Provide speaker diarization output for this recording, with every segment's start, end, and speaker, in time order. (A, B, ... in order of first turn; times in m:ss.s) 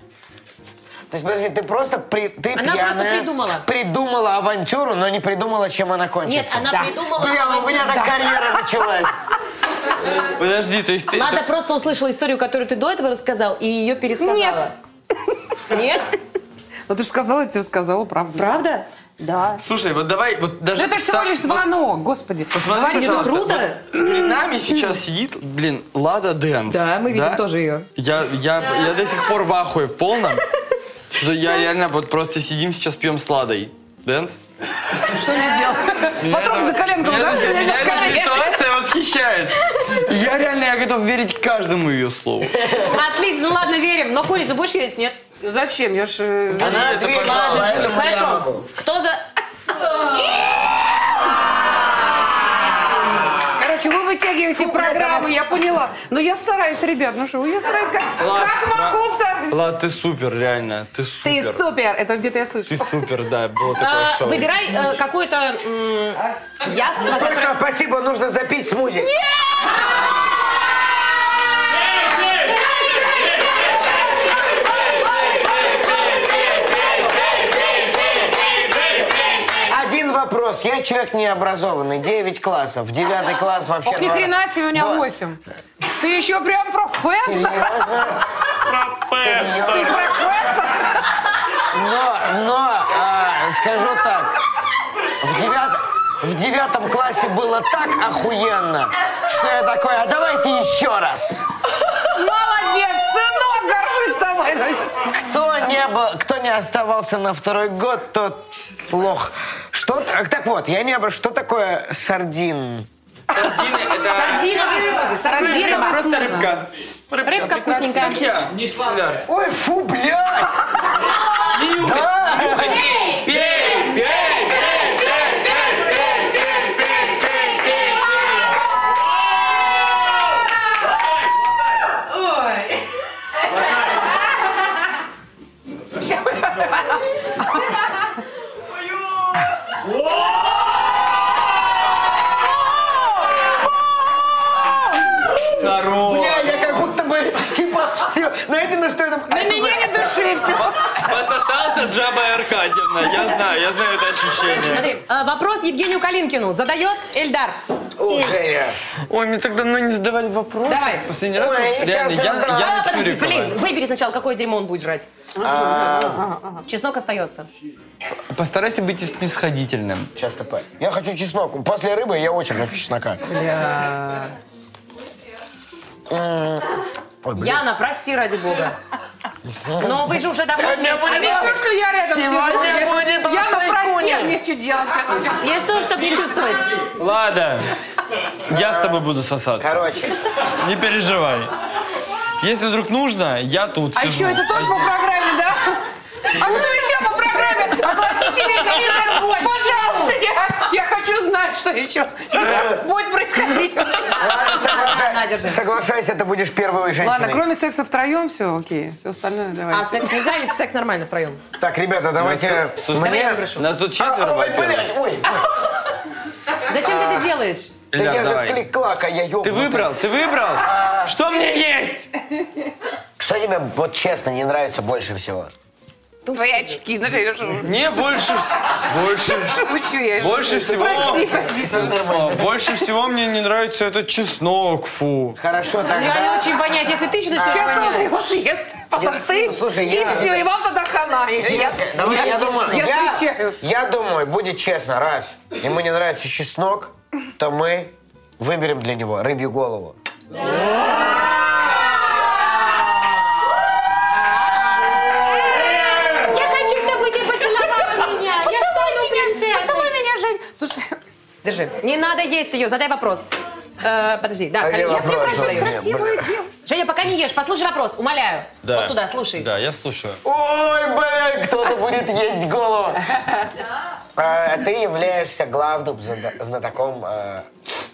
0:01.1-0:09.1 A
0:02.5-0:03.6 B
0:06.2-0:08.0 B
0:07.8-0:08.2 C
0:10.0-0:11.4 D
0:11.1-0:14.7 B
0:14.2-0:14.7 C
0:15.7-0:16.1 B
0:16.9-0:18.6 C
0:18.4-0:18.9 B
0:19.2-0:19.6 C
0:19.6-0:21.6 D
0:20.7-0:23.4 C
0:22.5-0:27.4 D
0:22.8-0:23.8 B
0:24.0-0:24.2 C
0:26.7-0:27.9 B
0:28.0-0:30.4 D
0:31.1-0:34.4 D
0:35.0-0:38.6 C
0:36.2-0:42.6 D
0:42.8-0:45.2 B
0:45.4-0:46.8 C
0:46.5-0:48.0 D
0:46.5-0:48.7 A
0:47.0-0:50.3 B
0:53.6-0:59.6 C
0:54.6-0:55.3 A
0:58.2-1:01.6 D
1:01.2-1:02.9 C
1:02.7-1:04.5 D
1:03.8-1:07.6 B
1:07.0-1:09.1 A
1:09.2-1:09.6 C
1:15.4-1:19.1 D
1:19.6-1:25.1 A
1:23.8-1:27.9 C
1:27.2-1:28.2 A
1:28.6-1:30.0 D
1:29.2-1:30.0 A
1:29.6-1:31.1 C
1:31.7-1:34.4 A
1:35.2-1:41.4 A
1:42.0-1:45.1 C
1:45.1-1:52.9 A
1:53.3-1:59.2 D
1:54.0-1:56.5 C
1:54.1-1:56.0 B
1:57.2-1:58.2 B
1:59.2-2:00.8 A
2:01.5-2:08.5 D
2:01.7-2:03.1 A
2:16.0-2:17.6 C
2:20.0-2:20.4 D
2:25.4-2:26.8 D
2:25.9-2:30.4 A
2:29.3-2:31.0 C
2:30.9-2:34.9 D
2:34.6-2:37.6 B
2:38.0-2:38.8 A
2:39.1-2:43.6 D
2:40.6-2:41.1 B
2:41.3-2:42.8 A
2:42.4-2:45.1 B
2:45.3-2:46.6 C
2:45.4-2:46.2 A
2:46.6-2:47.5 B
2:48.3-2:50.1 D
2:50.1-2:53.2 A
2:53.3-2:54.3 B
2:56.1-2:57.6 A
2:57.3-2:58.8 B
2:59.5-3:04.4 A
2:59.8-3:01.6 B
3:01.0-3:05.6 C
3:05.4-3:06.8 B
3:06.9-3:07.7 D
3:08.5-3:09.9 D
3:08.5-3:09.0 A
3:09.6-3:10.2 A
3:10.5-3:11.5 D
3:12.4-3:15.0 D
3:13.9-3:24.4 C
3:18.6-3:20.2 B
3:24.1-3:27.4 A
3:24.2-3:25.6 B
3:27.0-3:30.1 C
3:29.7-3:31.4 B
3:31.6-3:35.5 A
3:32.2-3:34.9 D
3:32.9-3:33.6 B
3:36.6-3:37.7 B
3:36.8-3:37.2 D
3:37.9-3:38.6 D
3:37.9-3:40.0 A
3:39.4-3:42.1 D
3:40.6-3:41.1 A
3:43.2-3:45.5 A
3:46.2-3:46.6 B
3:46.3-3:47.8 C
3:47.6-3:49.6 D
3:49.0-3:52.0 C
3:50.2-3:55.4 D
3:50.7-3:52.5 A
3:55.4-3:56.6 A
3:55.8-3:58.1 B
3:57.3-4:03.6 C
3:59.0-4:00.5 A
4:01.3-4:10.0 A
4:15.5-4:19.9 E
4:17.8-4:21.0 C
4:21.4-4:25.8 B
4:24.6-4:26.3 A
4:24.9-4:26.5 C
4:26.6-4:29.5 B
4:28.6-4:30.2 D
4:30.2-4:33.1 A
4:34.2-4:37.5 A